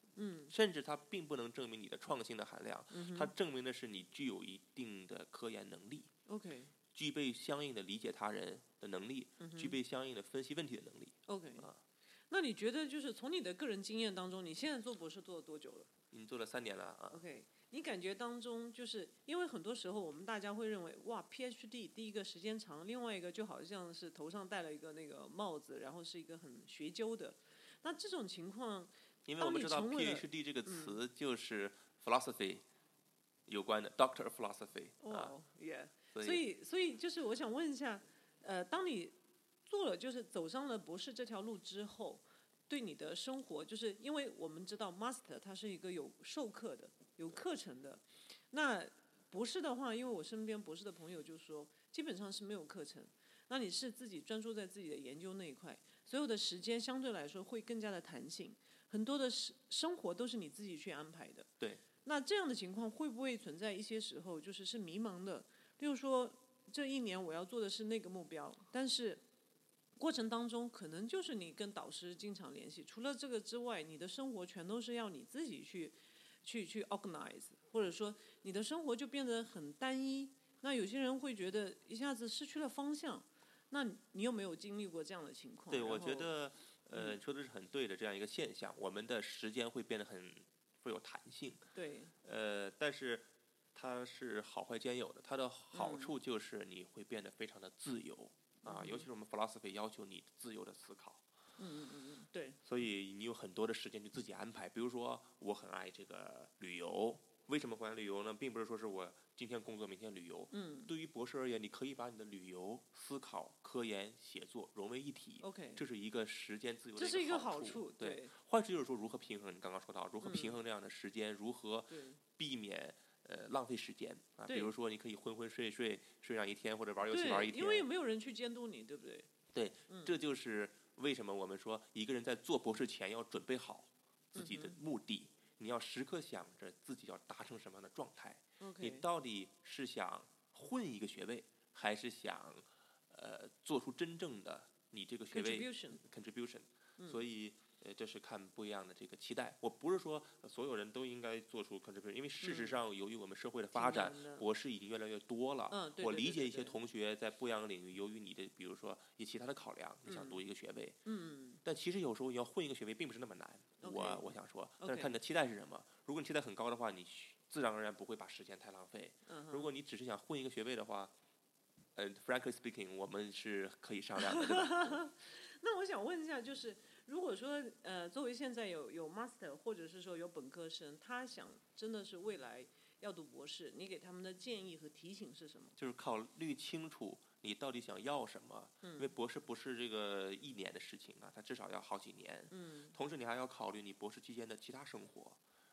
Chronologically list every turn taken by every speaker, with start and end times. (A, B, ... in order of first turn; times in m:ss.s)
0:00.2-0:00.5 A
0:00.5-0:06.1 B
0:02.9-0:03.3 A
0:06.3-0:06.7 A
0:06.9-0:11.8 B
0:09.4-0:09.8 A
0:11.3-0:11.7 A
0:12.3-0:15.9 A
0:16.1-0:17.2 B
0:17.1-0:31.0 A
0:29.2-0:32.6 B
0:33.5-0:35.4 B
0:35.0-1:01.5 A
0:36.1-0:36.4 B
1:02.0-1:09.2 A
1:10.0-1:26.3 A
1:25.7-1:31.6 B
1:26.9-1:27.2 A
1:31.7-1:32.1 A
1:32.2-1:41.2 B
1:35.7-1:36.2 A
1:38.6-1:39.1 A
1:41.6-1:42.6 A
1:42.6-2:07.9 B
1:50.5-1:50.9 A
1:55.4-1:55.8 A
1:57.0-1:58.3 A
2:00.2-2:00.6 A
2:01.9-2:02.2 A
2:04.5-2:04.7 A
2:07.1-2:09.3 A
2:09.5-2:41.0 B
2:09.9-2:10.2 A
2:14.3-2:14.8 A
2:18.6-2:19.0 A
2:25.3-2:26.0 A
2:32.4-2:32.8 A
2:33.7-2:34.4 A
2:35.7-2:36.8 A
2:40.0-2:40.4 A
2:41.0-2:41.6 A
2:41.6-2:51.1 B
2:43.8-2:45.1 A
2:49.2-2:49.7 A
2:51.9-2:55.0 B
2:54.2-3:05.8 A
3:05.8-3:15.4 B
3:08.8-3:09.1 A
3:12.5-3:12.9 A